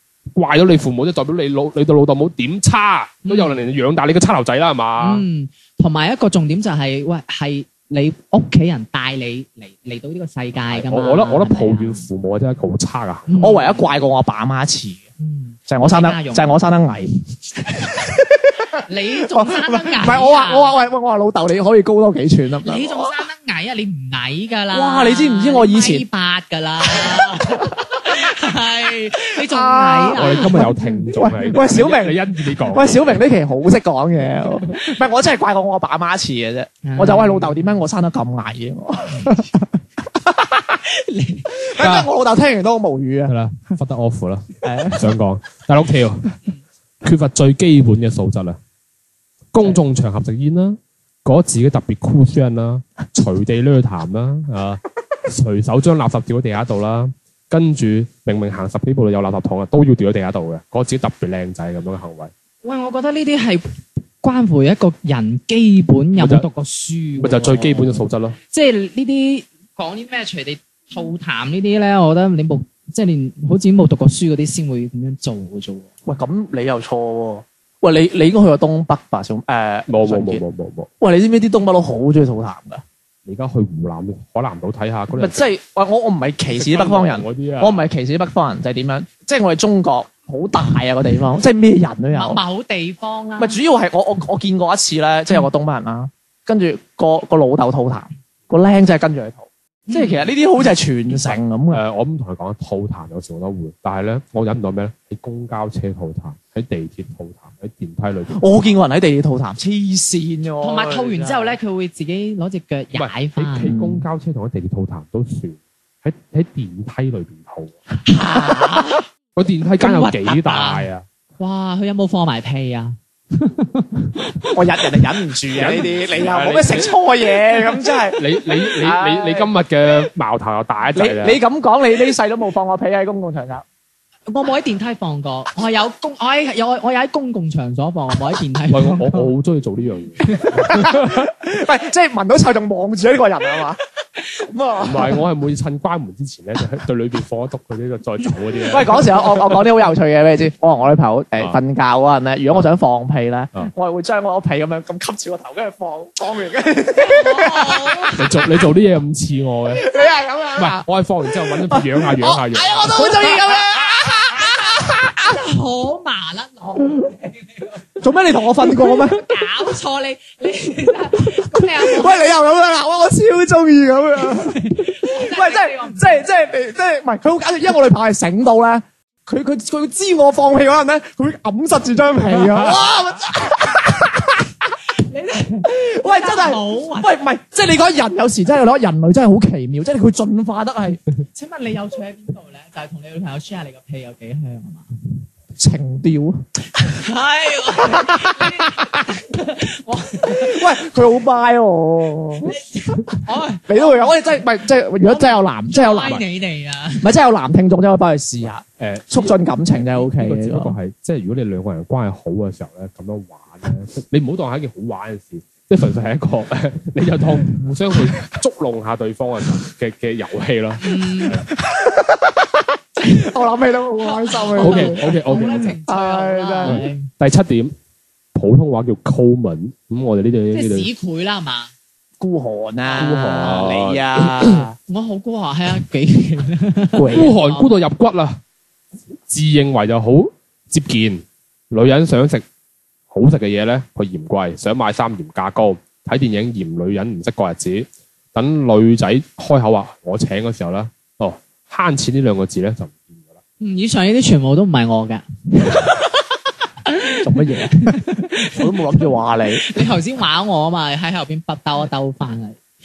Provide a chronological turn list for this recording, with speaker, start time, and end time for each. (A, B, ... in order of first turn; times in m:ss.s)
0:00.3-0:05.2 A
0:03.2-0:03.6 B
0:05.0-0:12.0 B
0:10.7-0:13.4 A
0:13.3-0:13.8 B
0:13.4-0:15.0 C
0:15.2-0:16.5 B
0:15.7-0:23.1 C
0:18.8-0:20.7 B
0:22.6-0:30.7 B
0:24.7-0:26.0 C
0:26.8-0:28.3 C
0:29.1-0:40.8 C
0:30.1-0:33.2 A
0:36.8-0:37.7 B
0:40.9-0:41.6 B
0:41.5-0:43.3 C
0:41.8-0:42.1 A
0:43.3-0:46.4 A
0:44.6-0:45.2 C
0:47.0-0:48.6 A
0:49.5-1:02.3 A
1:02.6-1:03.6 B
1:04.2-1:15.9 B
1:06.2-1:06.4 A
1:07.2-1:08.4 A
1:16.0-1:20.4 C
1:19.9-1:20.9 A
1:21.0-1:22.8 C
1:23.2-1:25.4 A
1:25.1-1:32.4 C
1:26.5-1:27.8 A
1:32.1-1:33.6 B
1:33.4-1:41.8 C
1:39.9-1:40.3 B
1:41.3-1:48.7 A
1:48.4-1:51.6 C
1:50.6-1:53.8 B
1:52.9-1:57.8 A
1:53.7-1:54.0 C
1:58.1-1:59.0 C
1:58.2-1:59.0 B
1:59.4-2:01.0 A
1:59.8-2:00.8 B
2:01.4-2:04.6 B
2:04.5-2:09.5 C
2:05.5-2:06.9 A
2:08.1-2:11.4 A
2:10.9-2:13.6 C
2:14.3-2:19.3 B
2:18.7-2:21.3 A
2:20.2-2:20.8 B
2:20.6-2:25.2 C
2:24.8-2:29.6 A
2:28.6-2:38.6 C
2:37.0-2:38.2 B
2:38.1-2:39.8 A
2:39.7-2:40.8 C
2:40.6-2:43.1 A
2:41.6-2:45.4 C
2:43.0-2:43.6 B
2:44.2-2:47.8 B
2:48.0-2:49.3 C
2:48.6-2:52.3 B
2:51.2-3:04.7 C
2:54.2-2:56.2 B
3:05.0-3:07.1 B
3:05.6-3:11.0 C
3:11.3-3:14.9 B
3:15.6-3:16.4 C
3:16.8-3:20.6 B
3:17.8-3:19.0 C
3:20.2-3:22.5 C
3:22.4-3:24.2 B
3:23.7-3:26.2 C
3:25.0-3:27.1 B
3:27.0-3:30.7 C
3:28.8-3:41.5 A
3:40.8-3:41.4 B
3:41.5-3:46.8 C
3:44.0-3:47.1 B
3:44.6-3:45.7 A
3:46.6-3:47.7 A
3:48.3-3:50.9 A
3:50.5-3:51.7 B
3:52.2-3:54.7 C
3:52.8-3:53.7 B
3:53.0-3:54.6 A
3:54.9-3:57.7 B
3:57.0-3:57.3 C
3:57.1-3:58.4 A
3:59.3-4:02.4 A
4:03.1-4:13.2 A
4:13.6-4:16.2 B
4:16.8-4:22.6 B
4:17.2-4:19.6 C